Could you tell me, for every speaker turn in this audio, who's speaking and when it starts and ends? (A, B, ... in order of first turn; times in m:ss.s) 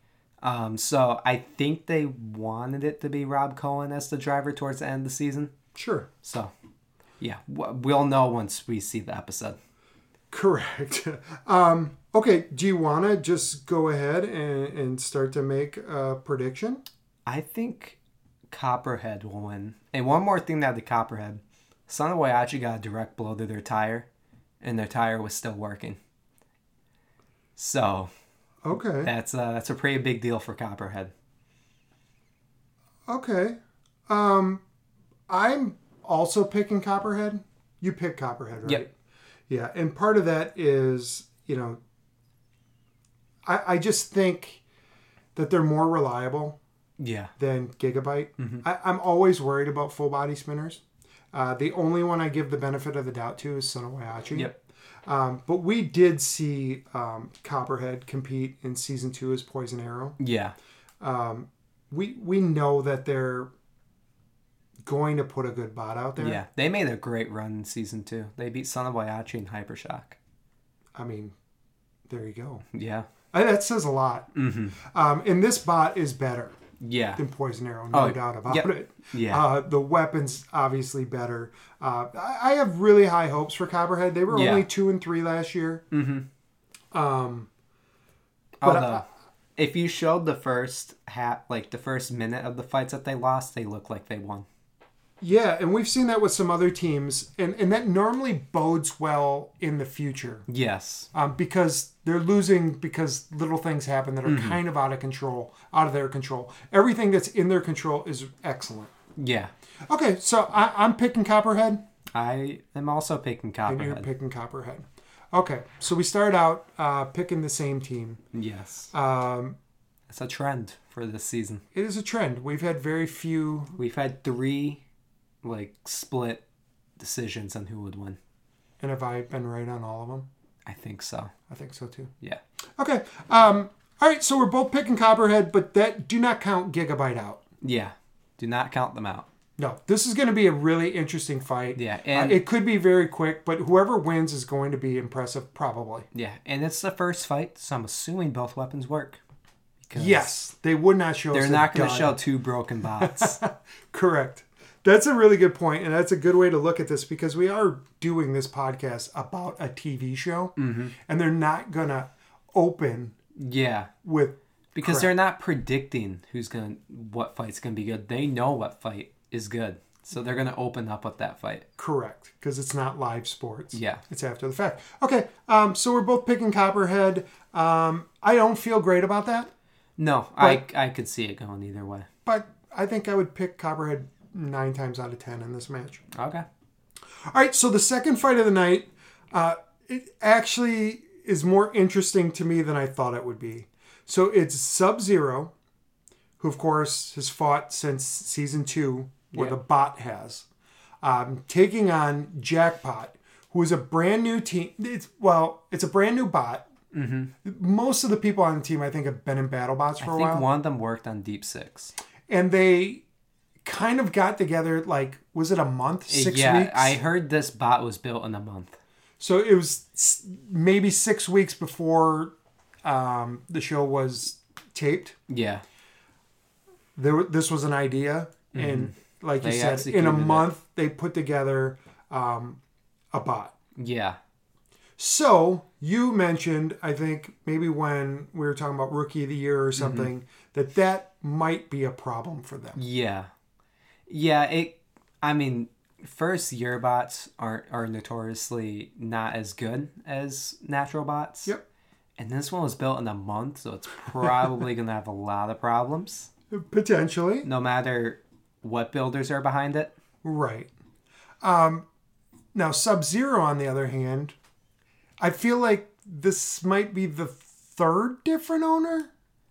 0:00.4-0:05.5 A
0:05.7-0:06.1 B
0:06.2-0:06.5 A
0:07.2-0:09.6 A
0:10.3-0:16.8 B
0:17.2-0:18.0 A
0:18.5-0:24.1 A
0:24.6-0:26.0 A
0:27.6-0:28.1 A
0:28.6-0:29.1 B
0:29.0-0:31.1 A
0:33.1-0:34.6 B
0:35.3-0:38.9 B
0:39.5-0:41.8 B
0:43.4-0:44.6 B
0:45.3-0:46.6 B
0:47.0-0:47.3 A
0:47.4-0:50.8 B
0:48.4-0:48.6 A
0:51.3-0:54.5 B
0:55.0-1:00.2 B
1:00.2-1:00.5 A
1:01.0-1:03.5 B
1:04.8-1:06.4 B
1:06.2-1:10.2 A
1:10.9-1:11.3 B
1:12.1-1:12.6 B
1:12.7-1:13.1 A
1:13.3-1:16.6 B
1:14.3-1:14.8 A
1:16.8-1:17.2 A
1:17.2-1:25.8 B
1:17.9-1:19.5 A
1:24.3-1:24.7 A
1:25.9-1:26.3 A
1:26.9-1:27.5 B
1:28.6-1:29.0 A
1:28.6-1:29.0 B
1:29.6-1:34.4 A
1:35.2-1:40.4 B
1:40.5-1:41.1 A
1:41.1-1:48.9 B
1:44.2-1:44.6 A
1:49.2-1:49.5 A
1:49.9-1:51.8 B
1:52.1-1:54.1 A
1:53.6-1:58.2 B
1:58.3-1:58.9 A
1:58.9-1:59.6 B
2:00.1-2:01.6 A
2:01.7-2:03.8 B
2:03.8-2:04.8 A
2:05.4-2:06.4 A
2:07.0-2:08.2 A
2:08.8-2:10.3 B
2:10.6-2:11.3 A
2:11.5-2:12.1 B
2:12.8-2:17.4 B
2:17.6-2:19.2 A
2:19.6-2:26.1 B
2:21.7-2:22.4 A
2:26.1-2:29.2 A
2:29.8-2:30.3 A
2:29.9-2:32.2 B
2:31.3-2:33.4 A
2:33.0-2:43.2 B
2:40.6-2:40.9 A
2:43.4-2:43.9 A
2:44.0-2:45.1 B
2:44.7-2:51.6 A
2:51.8-2:59.5 B
2:53.7-2:54.0 A
3:00.0-3:02.1 A
3:02.2-3:06.0 B
3:06.1-3:06.4 A
3:07.3-3:15.5 B
3:16.4-3:20.5 B
3:21.0-3:26.6 B
3:26.9-3:27.3 A
3:27.4-3:30.4 B
3:30.0-3:31.9 A
3:32.3-3:33.0 B
3:33.6-3:37.0 B
3:36.1-3:38.8 A
3:39.2-3:45.2 B
3:45.3-3:45.6 A
3:47.0-3:52.6 B
3:48.5-3:50.5 A
3:53.1-3:53.5 B
3:53.8-3:54.2 A
3:55.0-4:02.8 B
3:59.8-4:00.1 A
4:02.8-4:03.3 A
4:04.1-4:11.5 A
4:12.2-4:16.3 A
4:16.5-4:17.5 B
4:17.4-4:19.9 A
4:20.2-4:20.7 B
4:21.4-4:21.8 B
4:22.5-4:24.4 B
4:25.2-4:29.1 B